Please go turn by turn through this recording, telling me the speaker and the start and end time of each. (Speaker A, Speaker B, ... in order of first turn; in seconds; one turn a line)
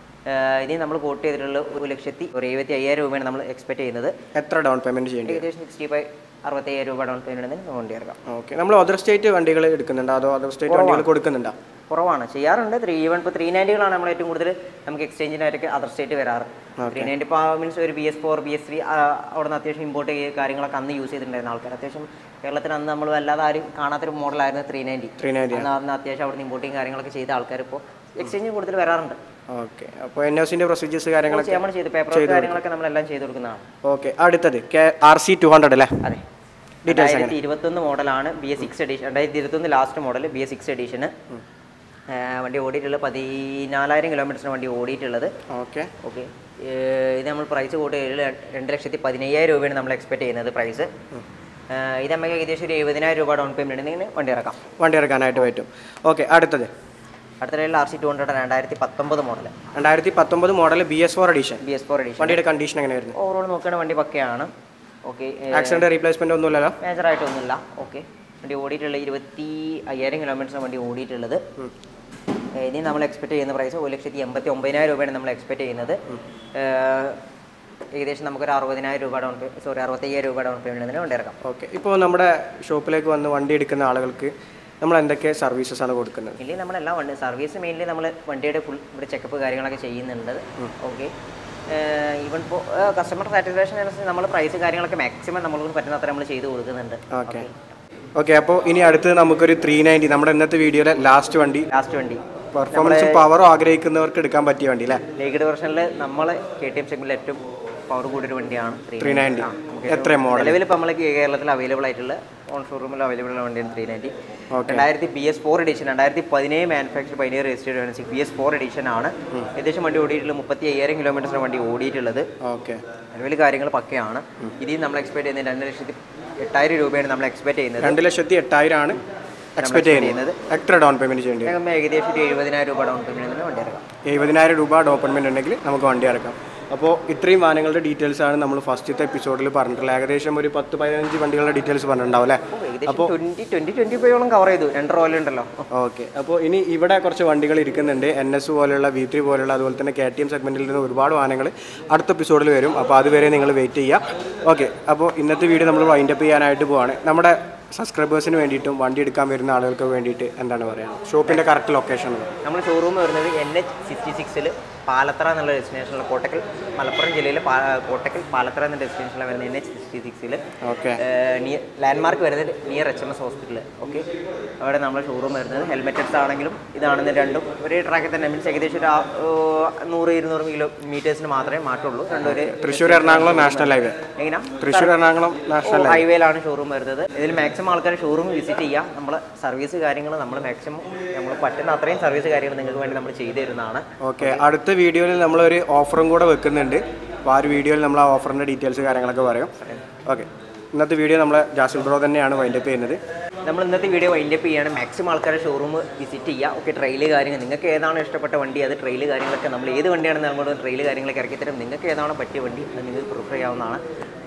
Speaker A: 0.2-4.1
Speaker B: 4.3-5.5
Speaker A: 5.2-8.2
Speaker B: 8.2-11.5
Speaker A: 10.7-11.1
Speaker A: 11.9-29.2
Speaker B: 16.8-17.1
Speaker B: 25.2-25.7
Speaker B: 29.5-32.6
Speaker A: 31.3-33.6
Speaker B: 33.8-36.1
Speaker B: 36.9-37.4
Speaker A: 36.9-41.1
Speaker A: 42.1-45.3
Speaker B: 45.5-45.9
Speaker A: 46.0-50.9
Speaker A: 51.7-54.6
Speaker B: 54.8-56.7
Speaker A: 57.4-59.5
Speaker B: 59.7-61.6
Speaker A: 61.6-62.4
Speaker B: 62.2-63.1
Speaker A: 63.1-64.5
Speaker A: 65.0-65.8
Speaker B: 65.5-66.8
Speaker A: 66.8-71.4
Speaker A: 72.5-76.0
Speaker A: 76.5-77.2
Speaker A: 77.9-81.4
Speaker B: 81.4-86.4
Speaker A: 86.4-91.1
Speaker A: 91.7-97.7
Speaker B: 97.1-97.5
Speaker B: 98.2-101.7
Speaker A: 101.7-103.3
Speaker B: 102.5-105.0
Speaker A: 105.2-122.3
Speaker B: 109.0-110.6
Speaker B: 114.5-114.9
Speaker B: 122.4-122.8
Speaker A: 123.1-128.0
Speaker B: 127.8-129.0
Speaker B: 129.6-131.5
Speaker A: 129.6-130.4
Speaker A: 131.4-133.8
Speaker B: 134.1-143.1
Speaker A: 142.5-145.7
Speaker B: 145.7-162.3
Speaker A: 162.4-170.4
Speaker B: 170.6-171.0
Speaker A: 171.0-174.1
Speaker A: 174.6-184.9
Speaker B: 182.2-184.0
Speaker B: 184.6-186.0
Speaker A: 185.6-194.4
Speaker B: 194.0-199.5
Speaker A: 199.5-199.8
Speaker B: 200.0-203.0
Speaker A: 203.4-213.8